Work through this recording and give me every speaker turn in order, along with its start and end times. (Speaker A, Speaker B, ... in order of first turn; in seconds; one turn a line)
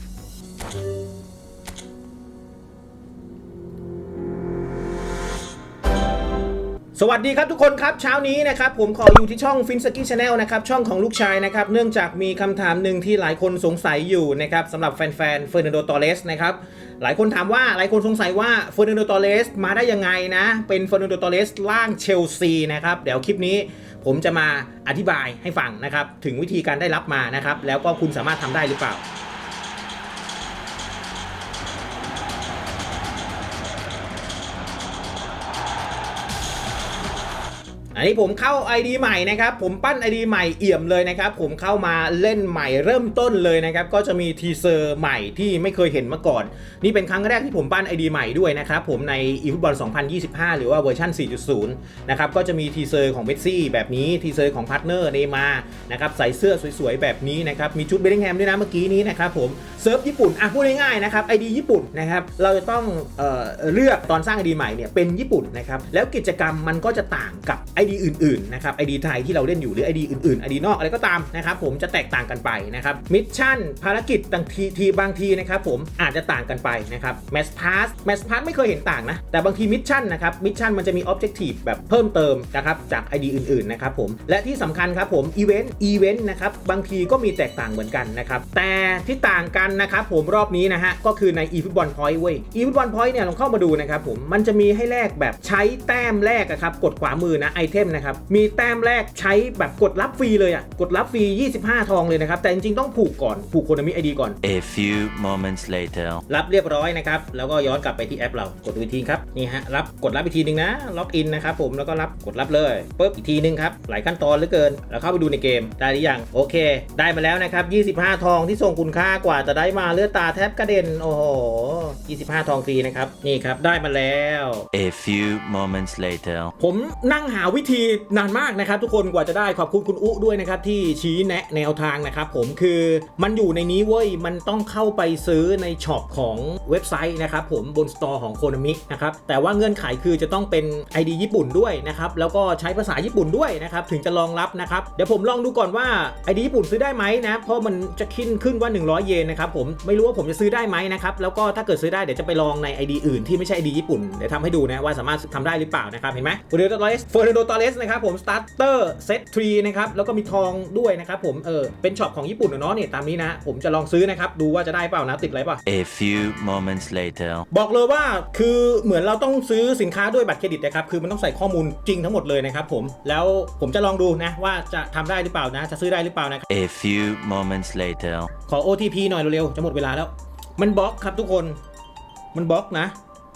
Speaker A: 6.9-29.0
Speaker A: 37.9-104.4
Speaker B: 104.4-106.2
Speaker A: 106.3-124.7
Speaker B: 124.7-126.5
Speaker A: 126.6-165.6
Speaker B: 165.7-167.4
Speaker A: 167.5-176.4
Speaker B: 176.5-178.3
Speaker A: 178.5-181.6
Speaker A: 182.3-182.9